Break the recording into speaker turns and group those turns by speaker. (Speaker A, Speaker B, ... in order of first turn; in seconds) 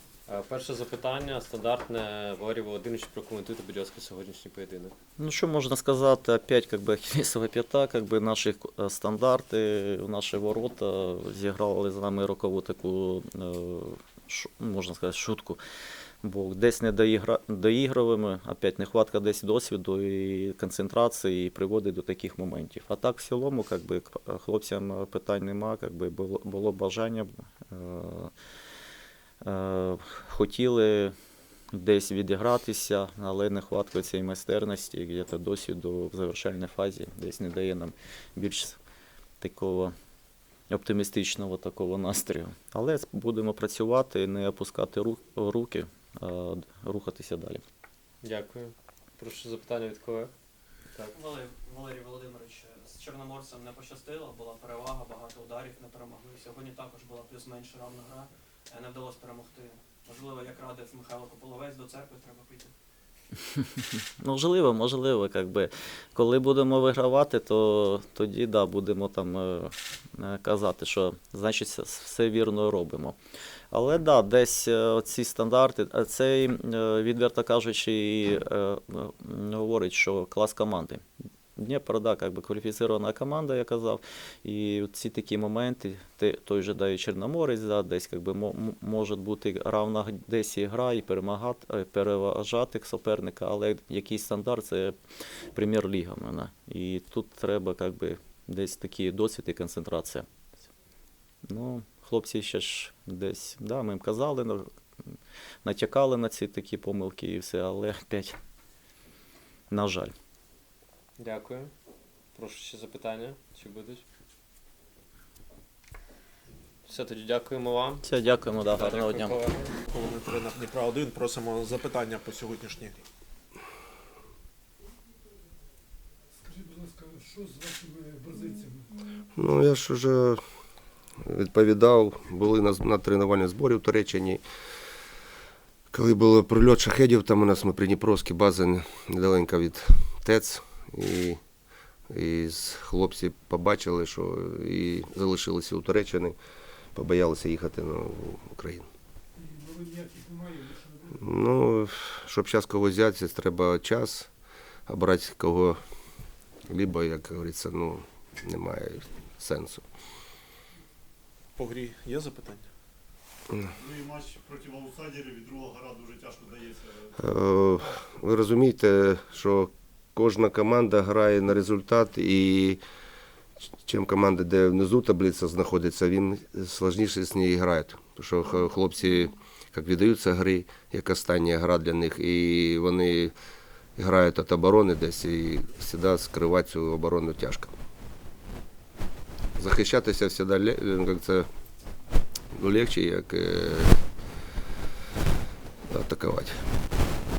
Speaker A: 0.2-5.0, 48.2-50.3, 111.2-111.7, 112.3-114.0, 116.9-118.0, 118.7-119.7
Speaker B: 5.2-15.6, 16.2-28.3, 29.4-31.1, 31.7-38.8, 39.4-39.9, 40.7-47.6, 63.5-73.2, 73.7-81.0, 81.6-95.0, 95.5-100.3, 101.5-104.6, 105.6-108.4, 109.7-110.1, 118.0-119.4
Speaker C: 51.1-62.7
Speaker D: 119.9-123.0, 161.6-162.7
Speaker E: 126.5-128.9, 149.4-151.1
Speaker F: 129.4-130.4, 131.2-134.4, 135.9-141.4, 142.1-146.4, 146.9-148.9, 151.2-154.3, 154.9-155.8, 156.7-159.8, 167.2-172.8, 173.8-183.3, 184.0-187.7, 189.6-191.5, 192.5-194.0, 195.9-196.7
Speaker G: 163.7-167.1